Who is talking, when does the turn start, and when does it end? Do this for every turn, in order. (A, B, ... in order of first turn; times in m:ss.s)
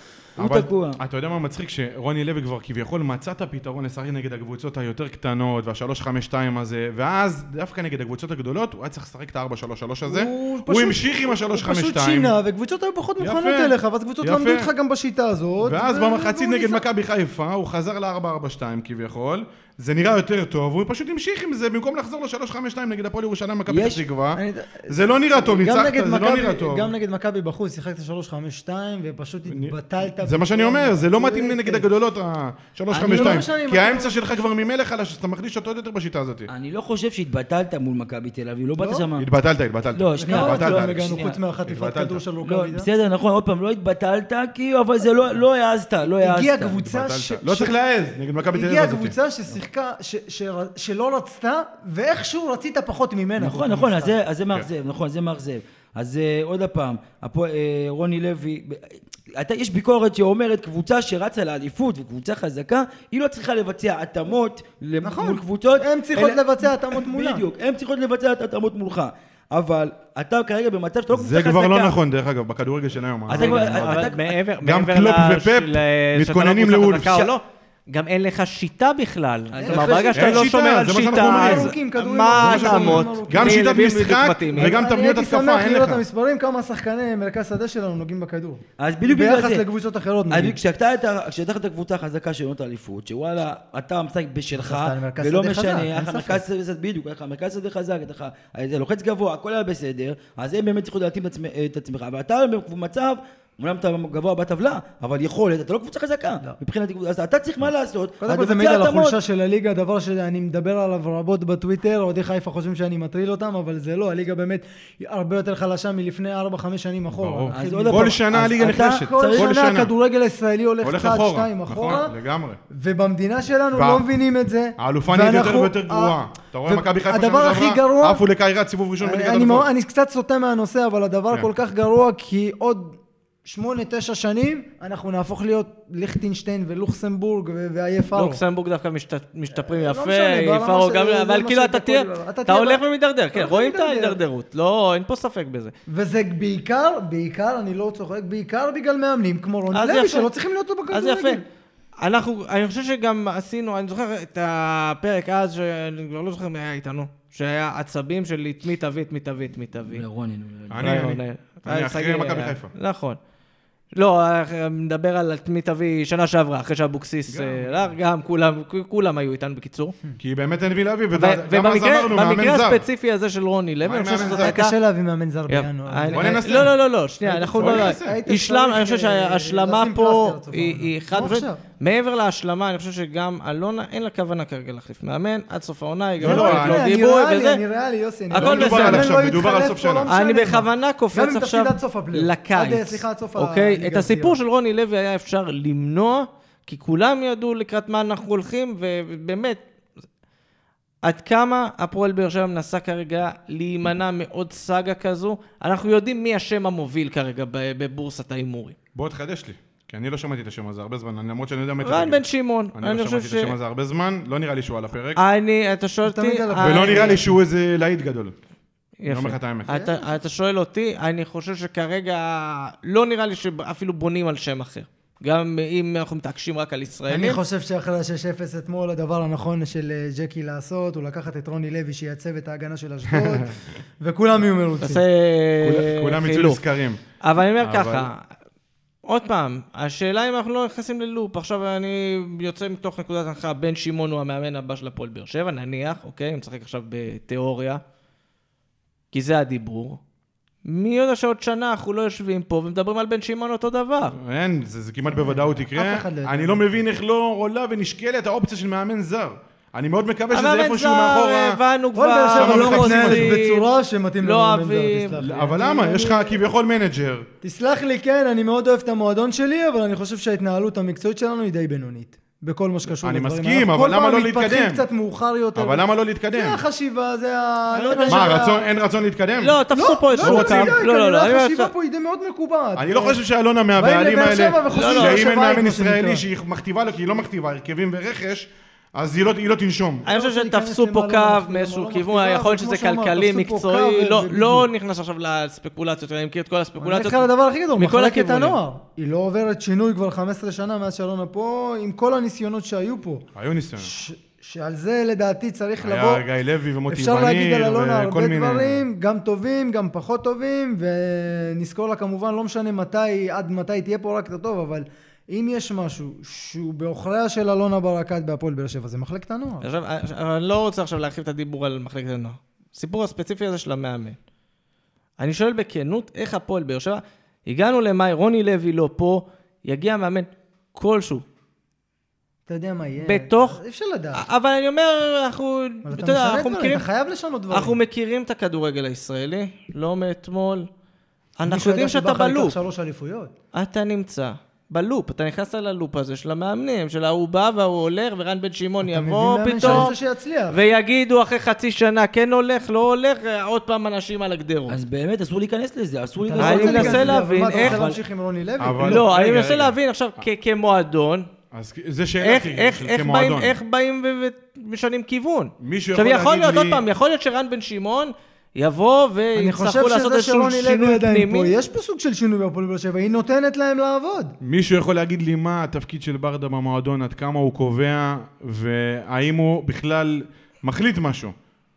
0:00.4-0:01.0 A
0:00.4-0:12.3 B
0:10.0-0:16.8 C
0:13.2-0:14.7 B
0:15.6-0:26.9 B
0:23.7-0:24.0 A
0:24.4-0:31.8 C
0:29.5-0:36.5 B
0:32.9-0:33.4 A
0:33.0-0:34.1 C
0:36.5-0:39.3 A
0:38.8-0:39.0 C
0:39.2-0:42.2 B
0:39.9-0:41.4 A
0:40.2-0:42.9 C
0:42.4-0:46.8 A
0:46.2-0:47.7 C
0:46.8-0:49.1 B
0:48.5-0:54.1 C
0:53.4-1:11.9 A
1:05.0-1:07.4 C
1:11.1-1:14.1 B
1:13.3-1:14.3 A
1:13.3-1:24.8 D
1:14.6-1:17.2 B
1:19.5-1:20.3 A
1:19.6-1:23.7 C
1:20.1-1:21.7 B
1:22.4-1:26.0 B
1:24.5-1:30.6 C
1:28.8-1:29.7 A
1:30.3-1:49.2 A
1:34.5-1:36.4 C
1:48.2-2:02.1 C
1:57.1-1:59.9 B
1:57.5-1:59.5 A
2:00.8-2:02.6 B
2:02.7-2:06.2 C
2:03.7-2:04.0 B
2:04.8-2:09.7 B
2:06.7-2:08.2 C
2:09.0-2:18.4 C
2:18.1-2:25.7 D
2:19.6-2:22.8 C
2:23.3-2:24.2 C
2:25.9-2:31.4 C
2:29.7-2:30.3 D
2:30.9-2:31.4 D
2:32.0-2:40.0 D
2:39.8-2:41.0 A
2:40.7-2:42.7 B
2:40.8-2:43.2 D
2:43.9-2:49.9 D
2:47.3-2:47.9 B
2:50.2-2:52.8 B
2:51.1-2:54.7 D
2:53.8-2:54.6 B
2:54.2-3:01.6 C
2:55.5-3:07.6 D
2:56.1-2:56.8 B
2:57.6-2:58.2 B
3:06.2-3:06.8 B
3:06.2-3:14.4 C
3:08.3-3:09.0 D
3:08.3-3:10.1 B
3:10.1-3:19.6 D
3:21.0-3:28.8 D
3:28.9-3:32.2 B
3:31.8-3:33.5 D
3:32.7-3:35.2 B
3:35.2-3:37.2 D
3:36.0-3:37.3 C
3:36.6-3:38.3 B
3:39.0-3:47.4 D
3:39.1-3:39.7 B
3:39.7-3:40.0 C
3:47.1-3:55.0 C
3:53.1-3:53.4 B
3:54.8-3:56.6 D
3:55.6-3:57.0 B
3:57.2-3:58.3 D
3:57.6-3:58.1 B
3:59.0-4:07.8 D
4:09.1-4:10.0 D
4:10.6-4:14.1 D
4:14.1-4:21.6 B
4:15.1-4:16.7 C
4:20.3-4:23.7 D
4:21.9-4:26.4 C
4:22.4-4:23.4 B
4:24.2-4:25.2 D
4:25.2-4:27.3 B
4:27.4-4:38.6 C
4:33.0-4:34.8 B
4:35.6-4:36.6 B
4:37.7-4:38.4 D
4:38.1-4:39.6 B
4:39.4-4:41.7 D
4:39.7-4:43.2 C
4:40.2-4:40.8 B
4:42.8-4:50.0 B
4:43.8-4:46.2 C
4:44.7-4:45.3 D
4:50.0-4:54.7 C
4:50.0-4:58.6 D
4:56.8-5:03.2 C
5:03.3-5:03.9 B
5:03.8-5:06.2 C
5:05.8-5:08.8 B
5:06.9-5:19.6 C
5:19.6-5:24.2 D
5:25.2-5:31.2 D
5:32.5-5:34.2 C
5:33.0-5:33.6 D
5:34.1-5:36.8 D
5:35.8-5:37.8 C
5:37.5-5:40.7 D
5:41.4-5:42.6 D
5:41.4-5:43.3 C
5:43.5-5:50.0 D
5:48.8-5:50.6 C
5:49.6-5:49.9 A
5:50.5-5:54.8 D
5:54.7-5:57.7 A
5:56.2-5:59.1 C
5:56.4-5:57.9 D
5:58.6-5:59.7 B
5:58.8-6:01.3 D
6:01.5-6:03.6 B
6:02.2-6:11.5 D
6:05.6-6:06.8 B
6:09.4-6:14.3 C
6:14.4-6:21.3 B